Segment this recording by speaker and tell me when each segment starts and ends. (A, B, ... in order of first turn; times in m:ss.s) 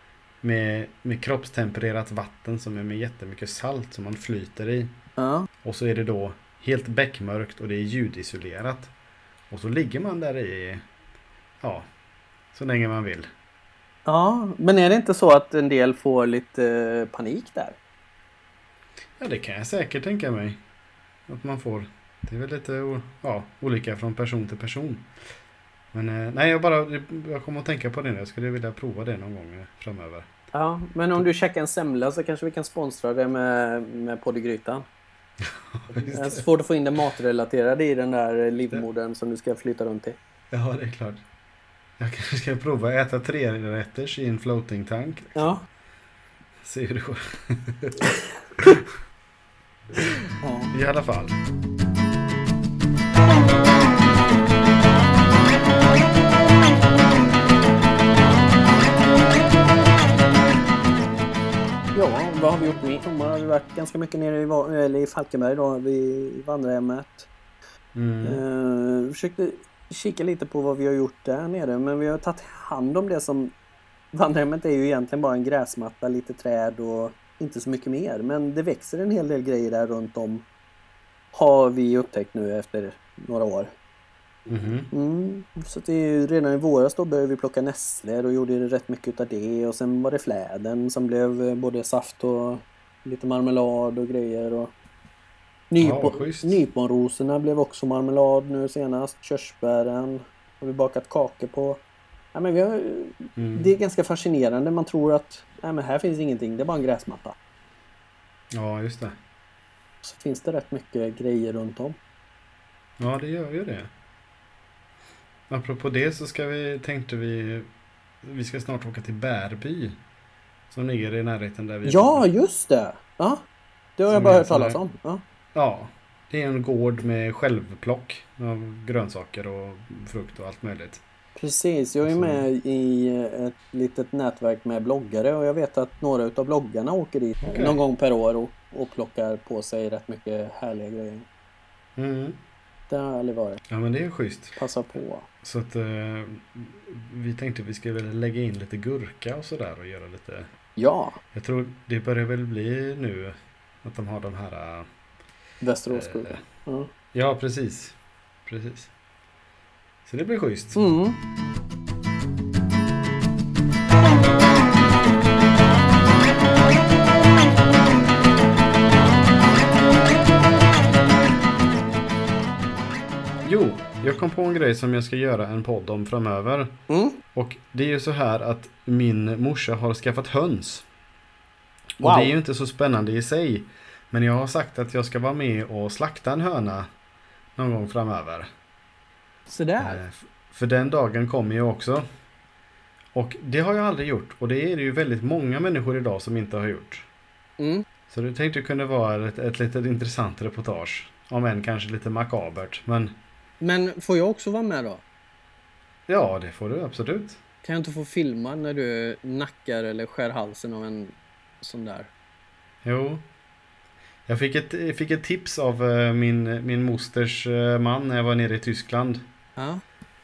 0:00.4-0:05.0 A
0:05.2-0:05.5 B
0:05.6-0:08.9 A
0:09.5-0:10.8 A
0:11.6-0:11.9 A
0:12.5-0:13.3 A
0:14.1-0:17.8 B
0:19.2-0:20.6 A
0:21.3-0:25.1 A
0:25.9-0:30.3 A
0:30.5-0:34.8 B
0:35.4-0:36.4 A
0:36.1-0:40.2 B
0:40.5-0:41.2 A
0:42.0-0:45.4 A
0:45.4-0:45.7 B
0:46.6-0:48.8 A
0:50.4-0:50.7 B
0:50.7-0:51.4 A
1:01.9-1:07.3 B
1:08.0-1:08.4 A
1:08.2-1:13.5 B
1:14.1-1:20.4 B
1:21.3-1:23.7 B
1:24.5-1:24.9 A
1:24.9-1:34.7 B
1:35.7-1:41.8 B
1:35.8-1:36.6 A
1:42.3-1:47.4 B
1:43.4-1:43.7 A
1:48.5-1:49.2 A
1:50.0-1:52.0 B
1:53.0-1:53.9 A
1:55.5-1:57.7 A
1:58.2-2:00.0 A
2:00.7-2:02.3 A
2:01.8-2:03.4 B
2:04.0-2:05.2 B
2:04.1-2:04.8 A
2:05.6-2:11.0 A
2:11.4-2:21.3 B
2:12.0-2:12.5 A
2:17.4-2:17.8 A
2:22.0-2:22.4 A
2:22.9-2:23.6 B
2:23.7-2:24.6 A
2:24.6-2:25.3 B
2:25.4-2:30.5 A
2:30.8-2:31.2 B
2:31.3-2:34.9 A
2:35.6-2:36.9 B
2:35.9-2:36.4 A
2:37.1-2:38.9 A
2:40.0-2:40.8 A
2:40.8-2:41.2 B
2:53.4-2:56.8 A
2:56.9-2:57.2 B
2:57.3-3:00.9 A
3:02.0-3:02.3 B
3:02.0-3:06.9 A
3:07.6-3:08.5 A
3:09.5-3:10.0 B
3:09.8-3:12.0 A
3:13.2-3:17.1 A
3:17.6-3:17.8 B
3:18.1-3:23.2 A
3:23.6-3:25.0 B
3:26.1-3:27.4 A
3:27.6-3:32.1 B
3:32.8-3:33.2 A
3:34.3-3:39.3 A
3:39.6-3:39.8 B